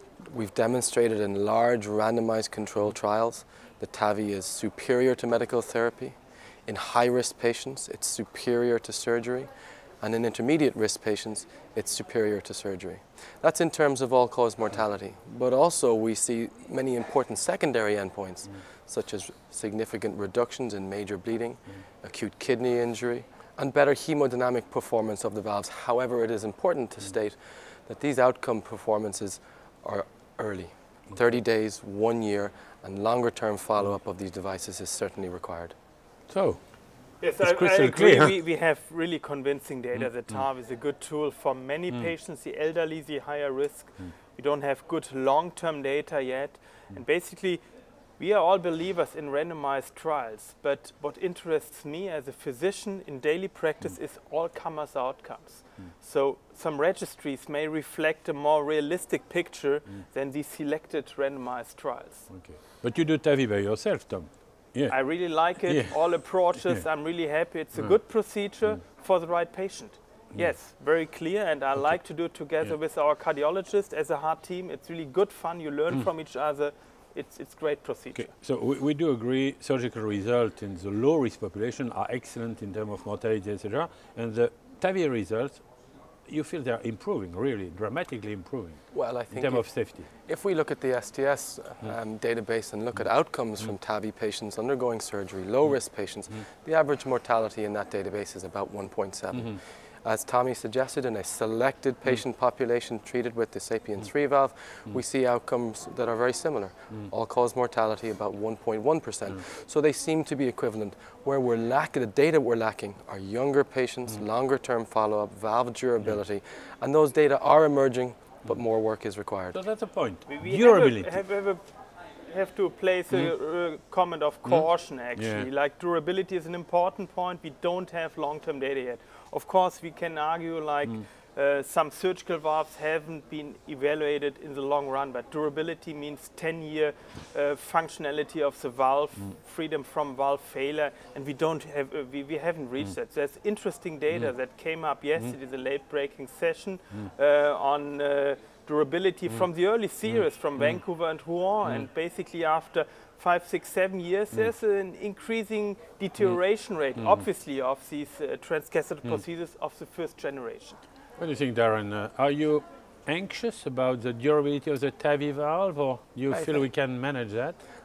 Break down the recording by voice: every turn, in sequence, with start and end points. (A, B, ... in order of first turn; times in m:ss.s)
0:00.3-0:06.2 A
0:06.7-0:09.5 A
0:10.0-0:35.8 A
0:36.3-0:36.6 B
0:37.2-0:47.6 C
0:37.4-0:38.4 B
0:48.2-1:02.3 C
1:02.3-1:06.0 B
1:04.9-1:18.3 C
1:06.6-1:06.8 B
1:18.2-1:25.6 B
1:26.3-1:30.1 B
1:28.9-1:59.6 A
1:59.5-2:01.2 B
2:00.3-2:01.6 C
2:02.3-2:40.8 C
2:04.5-2:05.5 B
2:30.1-2:30.8 B
2:41.2-2:47.6 B
2:46.3-2:46.7 A